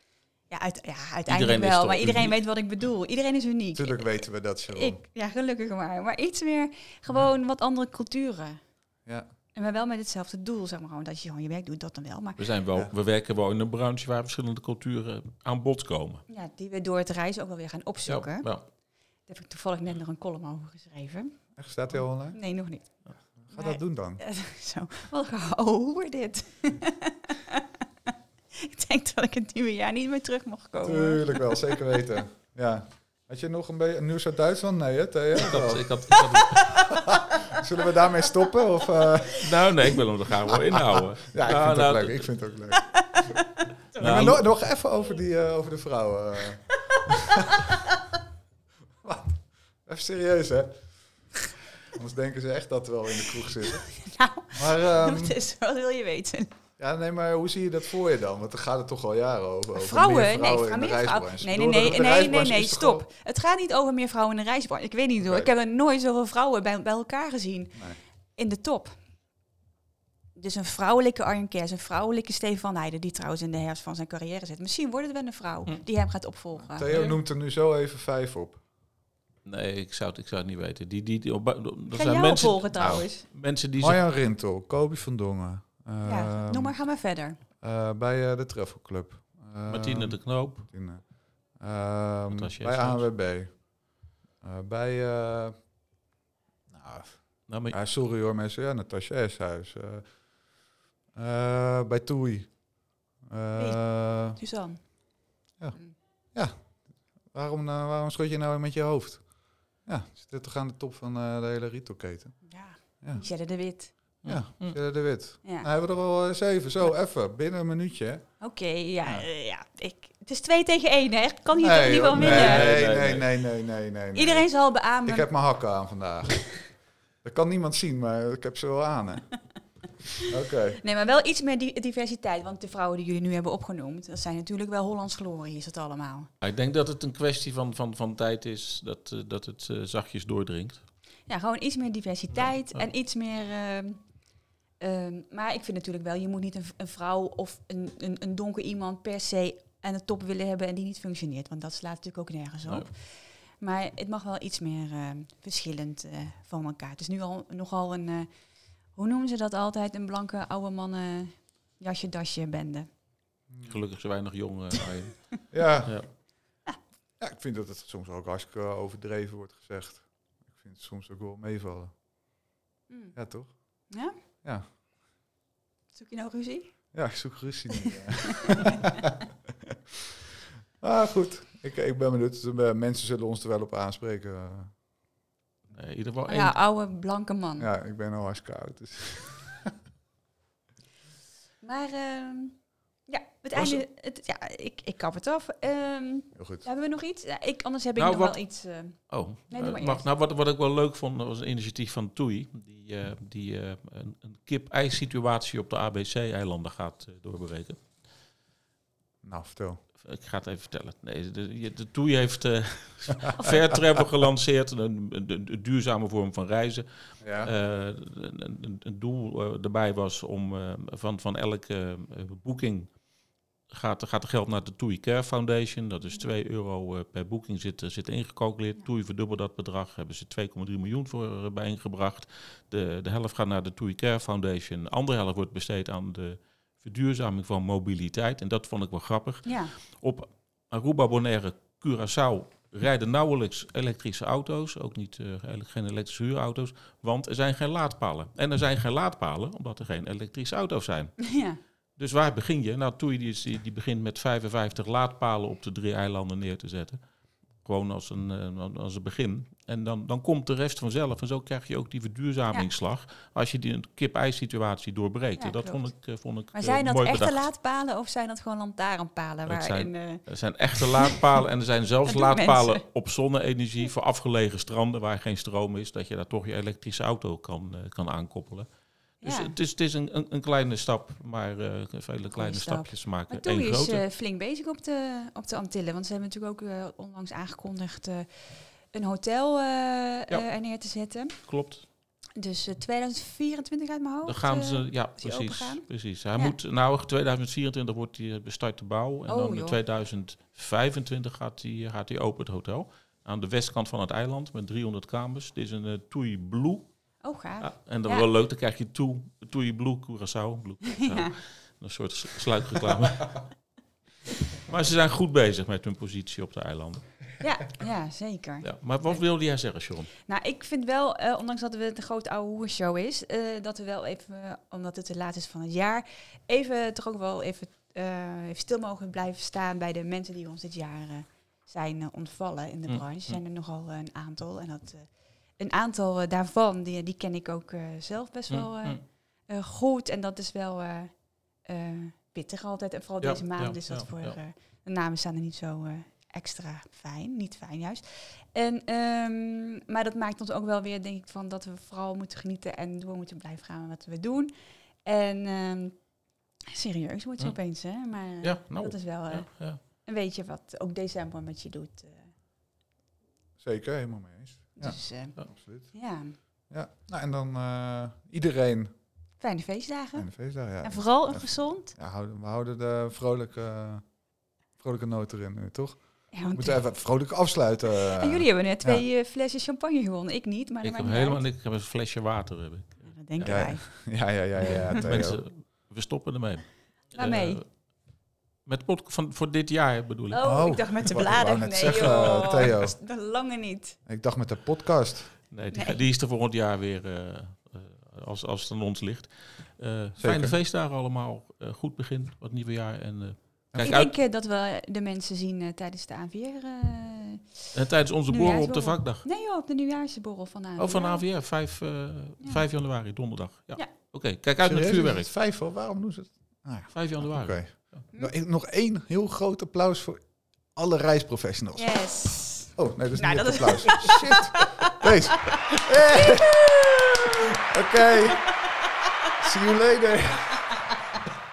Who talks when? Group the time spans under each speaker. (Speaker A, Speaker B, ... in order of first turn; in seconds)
Speaker A: 0.5-4.2, 4.7-8.6, 9.5-12.4, 16.3-18.5, 19.3-21.4, 22.3-22.9, 23.5-27.6, 28.5-31.9, 36.5-38.5, 42.9-43.7, 46.9-47.7, 53.9-56.5, 59.7-67.8, 68.3-69.0, 70.3-77.2, 81.9-83.2, 86.0-87.4, 103.5-103.8, 104.3-104.8, 112.5-113.9, 118.4-122.7, 124.1-125.3, 130.8-136.3, 141.3-144.0, 144.8-158.3, 158.9-162.9, 175.9-176.7, 177.8-179.0, 186.3-187.7, 191.6-199.0, 199.5-200.0, 239.4-239.7, 251.2-251.6, 265.4-265.8, 266.5-270.2, 270.8-271.2, 272.1-272.8, 279.2-279.5, 282.3-288.3, 288.9-291.4, 292.4-296.5, 299.3-299.8, 307.2-308.3, 310.9-311.3, 317.4-319.2, 320.2-354.5, 355.0-356.0, 356.7-362.3, 364.8-365.4, 365.9-366.3, 369.4-370.3, 370.8-371.9, 376.3-376.8, 378.1-381.4, 383.0-384.1, 384.6-385.0, 387.1-387.6, 390.3-394.0, 395.7-396.0, 403.8-407.4, 408.3-411.2, 421.8-425.0, 426.1-426.4
Speaker B: 1.3-2.4, 12.4-16.2, 18.1-18.6, 35.4-36.9, 39.4-42.2, 44.0-44.4, 76.9-77.1, 79.4-84.0, 89.7-90.6, 92.3-93.0, 97.5-97.8, 114.2-114.8, 122.1-123.3, 136.4-140.8, 142.3-142.8, 163.7-166.1, 185.7-186.5, 198.0-198.3, 199.1-207.8, 210.0-216.8, 217.4-222.9, 223.7-251.3, 252.0-257.0, 257.6-267.4, 269.5-278.7, 279.2-284.0, 291.4-291.8, 294.2-306.9, 307.6-313.4, 314.6-317.2, 318.6-320.1, 332.9-333.4, 338.5-339.0, 343.2-344.4, 358.4-359.8, 380.8-383.7, 384.9-387.7, 388.6-390.4, 391.8-392.5, 395.5-404.1, 407.7-409.2, 410.8-415.3, 416.9-418.0
Speaker C: 3.7-5.0, 21.6-22.4, 23.4-24.2, 30.8-36.1, 36.7-42.8, 44.0-47.7, 49.0-50.9, 51.9-53.9, 54.5-55.4, 56.8-63.1, 65.2-65.5, 76.6-78.6, 83.8-86.8, 87.6-93.6, 94.4-95.5, 96.7-100.1, 101.1-102.5, 103.2-104.4, 107.3-109.3, 109.8-112.4, 114.2-118.2, 121.6-124.5, 125.0-126.6, 127.2-129.2, 130.3-130.8, 163.5-163.8, 165.5-166.0, 167.2-171.9, 173.1-173.5, 176.9-179.1, 180.8-184.7, 187.6-189.7, 196.3-196.6, 209.2-209.8, 217.2-217.5, 363.6-365.9, 366.7-368.9, 370.1-374.0, 374.8-379.0, 383.4-385.4, 390.4-392.9, 394.1-395.4, 400.2-400.6, 403.7-404.0, 414.6-420.2, 420.7-421.9, 422.7-428.5, 429.4-430.6